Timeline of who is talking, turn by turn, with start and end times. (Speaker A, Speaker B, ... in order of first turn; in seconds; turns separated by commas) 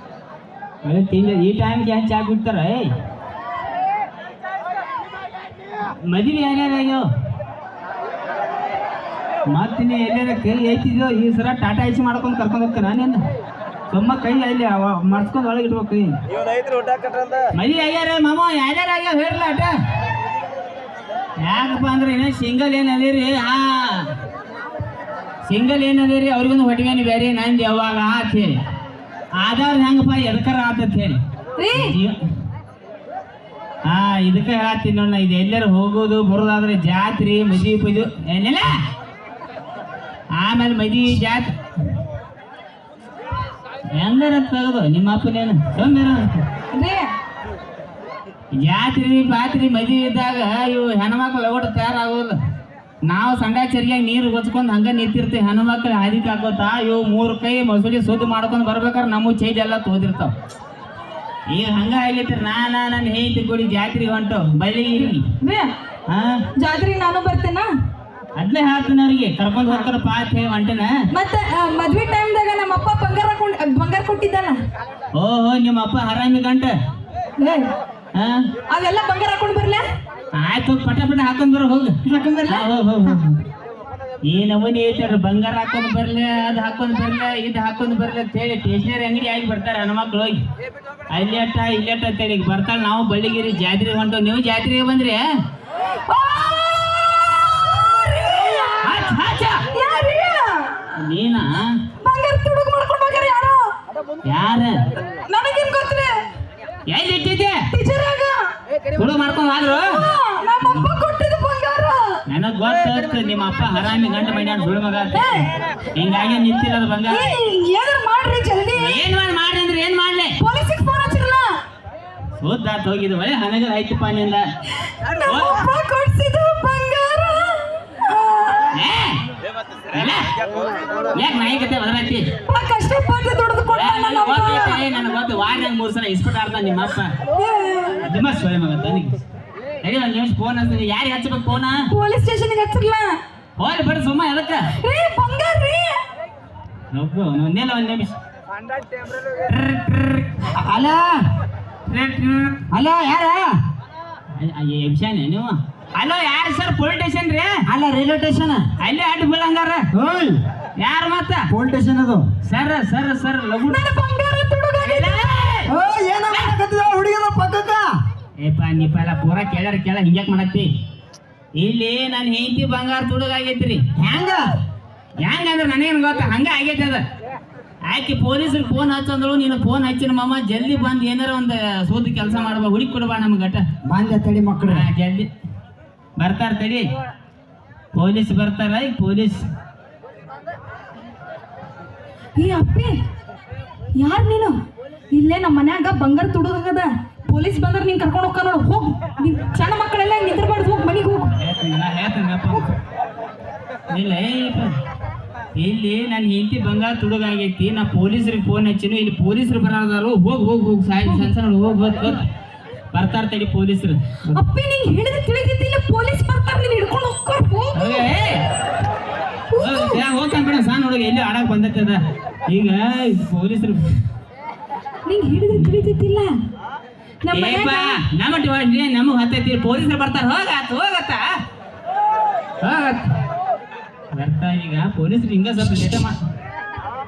Speaker A: 0.8-2.9, Speaker A: 6.0-7.0, Speaker A: 9.5-13.2, Speaker A: 13.9-16.2, Speaker A: 17.6-19.7, Speaker A: 21.4-24.1, Speaker A: 25.4-28.6, Speaker A: 29.4-31.2, Speaker B: 31.6-31.9, Speaker A: 31.7-32.2, Speaker A: 33.9-38.7, Speaker A: 40.3-41.5, Speaker A: 43.9-46.4, Speaker B: 46.7-47.0, Speaker A: 48.5-52.4, Speaker A: 53.1-60.3, Speaker A: 61.5-65.2, Speaker B: 65.4-65.7, Speaker A: 66.1-66.4, Speaker B: 66.6-67.7, Speaker A: 68.4-70.9, Speaker B: 71.1-74.6, Speaker A: 75.1-76.7, Speaker B: 77.4-77.7, Speaker A: 78.1-78.4, Speaker B: 78.7-79.8, Speaker A: 80.3-83.4, Speaker B: 82.0-82.7, Speaker A: 84.2-90.4, Speaker A: 91.1-95.2, Speaker B: 96.1-99.1, Speaker A: 98.8-99.6, Speaker B: 99.7-100.9, Speaker A: 101.0-101.8, Speaker B: 102.0-103.6, Speaker A: 104.2-104.8, Speaker B: 105.3-106.1, Speaker A: 106.9-107.5, Speaker B: 107.7-108.4, Speaker A: 108.9-109.9, Speaker B: 109.8-112.2, Speaker A: 112.3-115.3, Speaker B: 115.1-115.5, Speaker A: 115.9-117.3, Speaker B: 117.1-119.0, Speaker A: 118.8-120.4, Speaker B: 120.4-121.5, Speaker A: 122.4-124.4, Speaker B: 124.8-128.6, Speaker A: 125.2-125.6, Speaker A: 128.7-129.2, Speaker A: 129.9-130.3, Speaker A: 131.1-132.3, Speaker B: 132.4-134.8, Speaker A: 133.7-137.1, Speaker B: 137.4-138.0, Speaker A: 138.0-139.2, Speaker A: 139.8-141.9, Speaker B: 141.9-143.2, Speaker A: 143.6-144.7, Speaker B: 144.8-146.0, Speaker A: 146.9-148.2, Speaker A: 149.4-150.3, Speaker C: 150.5-151.2, Speaker A: 151.9-152.6, Speaker C: 152.7-153.6, Speaker A: 154.3-157.6, Speaker C: 157.7-158.7, Speaker A: 158.8-159.8, Speaker C: 159.9-160.4, Speaker A: 160.8-161.4, Speaker C: 161.5-162.2, Speaker A: 162.4-163.8, Speaker B: 163.7-165.5, Speaker A: 164.8-165.7, Speaker C: 165.7-167.9, Speaker A: 168.4-170.7, Speaker A: 171.6-173.8, Speaker C: 173.9-174.6, Speaker A: 175.2-177.0, Speaker A: 177.8-183.6, Speaker C: 183.8-184.8, Speaker A: 184.7-185.3, Speaker A: 186.2-186.9, Speaker A: 187.9-189.5, Speaker B: 192.3-193.0, Speaker B: 194.0-194.5, Speaker B: 195.1-201.3, Speaker A: 201.4-202.7, Speaker A: 203.9-204.7, Speaker A: 205.5-212.3, Speaker A: 212.9-214.4, Speaker B: 214.3-218.1, Speaker A: 217.7-218.5, Speaker B: 219.5-220.0, Speaker A: 219.6-224.0, Speaker B: 225.1-226.3, Speaker A: 225.5-225.8, Speaker B: 227.2-228.0, Speaker A: 227.3-231.3, Speaker A: 232.6-233.1, Speaker A: 234.1-236.2